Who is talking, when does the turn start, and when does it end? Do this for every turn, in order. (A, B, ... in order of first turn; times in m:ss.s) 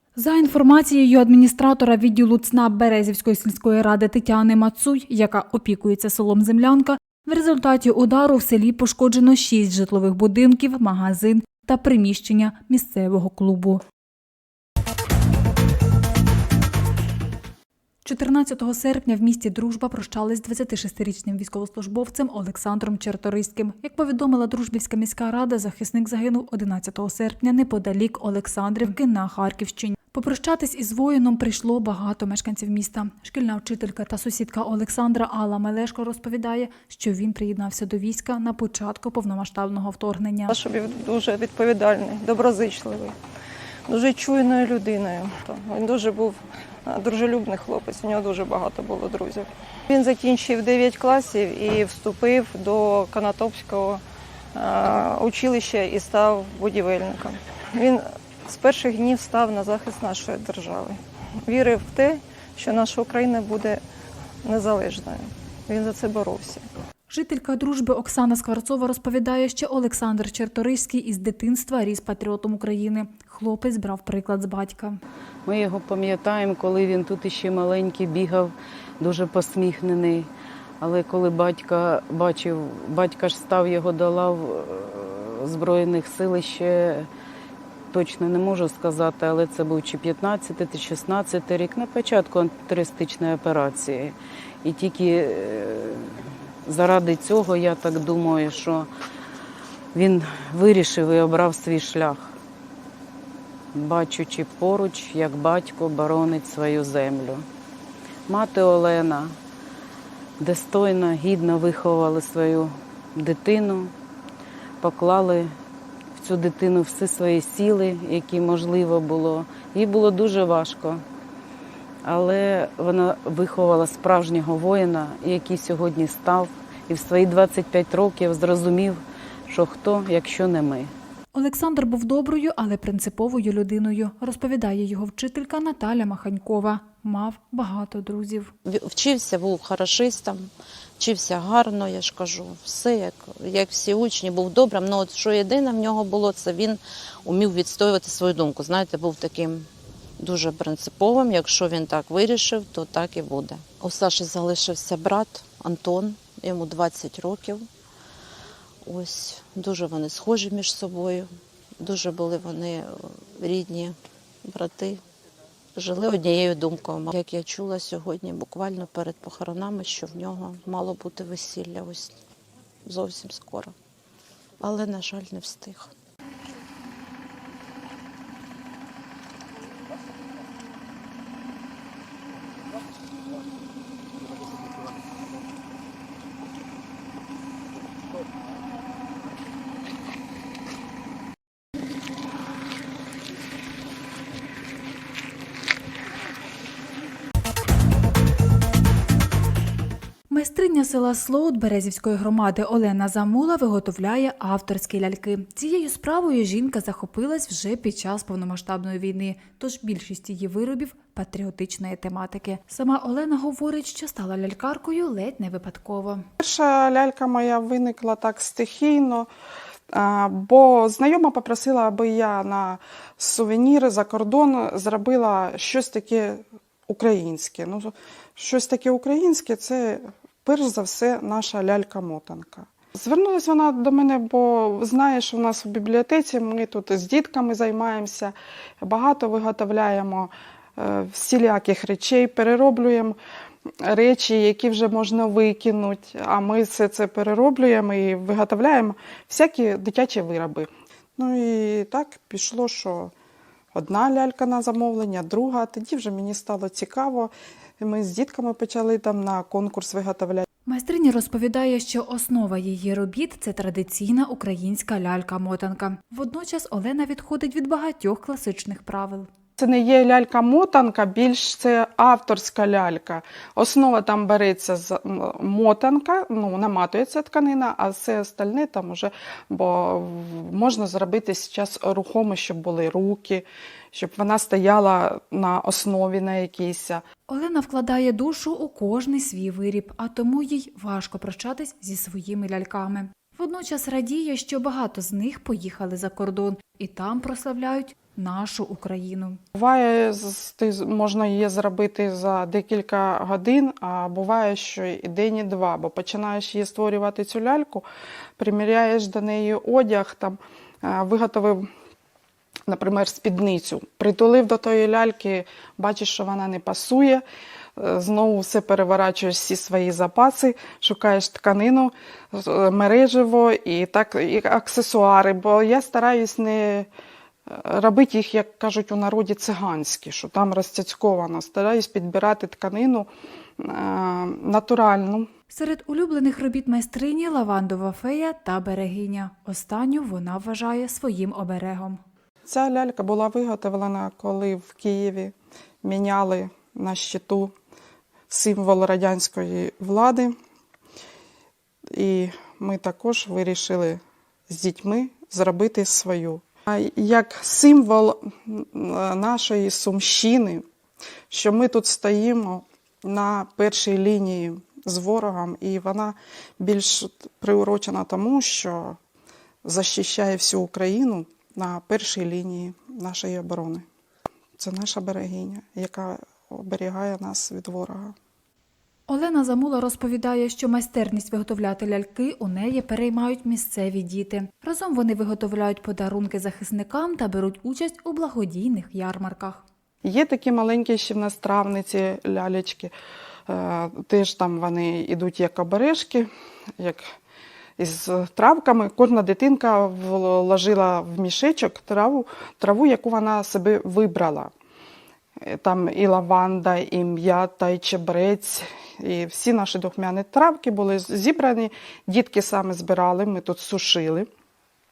0:00.2-0:13.8 A
0:18.0-0:40.5 A
0:40.5-0:43.2 B
0:43.9-0:54.0 B
0:54.5-1:03.8 B
1:04.4-1:06.7 B
1:07.1-1:15.0 A
1:15.4-1:20.3 C
1:20.8-1:27.1 C
1:27.9-1:38.9 C
1:39.9-1:42.3 C
1:43.7-1:47.4 C
1:48.3-1:49.3 C
1:50.4-1:53.9 C
1:54.8-1:55.5 C
1:56.2-2:01.0 C
2:02.0-2:10.9 C
2:11.3-2:18.5 A
2:18.6-2:29.7 D
2:30.2-2:37.6 D
2:38.8-2:45.0 D
2:45.7-2:52.1 D
2:52.8-2:53.7 D
2:54.6-2:55.9 D
3:20.3-3:36.2 A
3:36.4-3:39.3 E
3:39.9-4:03.2 E
4:03.8-4:13.1 E
4:13.7-4:20.4 E
4:20.6-4:29.3 A
4:29.6-4:47.0 E
4:47.3-4:59.4 A
4:59.6-5:07.8 E
5:08.4-5:11.6 E
5:12.7-5:17.2 E
5:17.8-5:26.9 E
5:27.5-5:35.3 E
5:35.5-5:42.0 A
5:42.5-5:47.5 E
5:48.3-5:50.3 E
5:51.9-6:00.6 E
6:01.3-6:09.0 E
6:09.6-6:13.8 E
6:14.6-6:18.1 E
6:19.1-6:29.6 A
6:30.0-6:32.9 E
6:33.5-6:37.0 E
6:37.8-6:44.5 E
6:45.4-6:54.3 E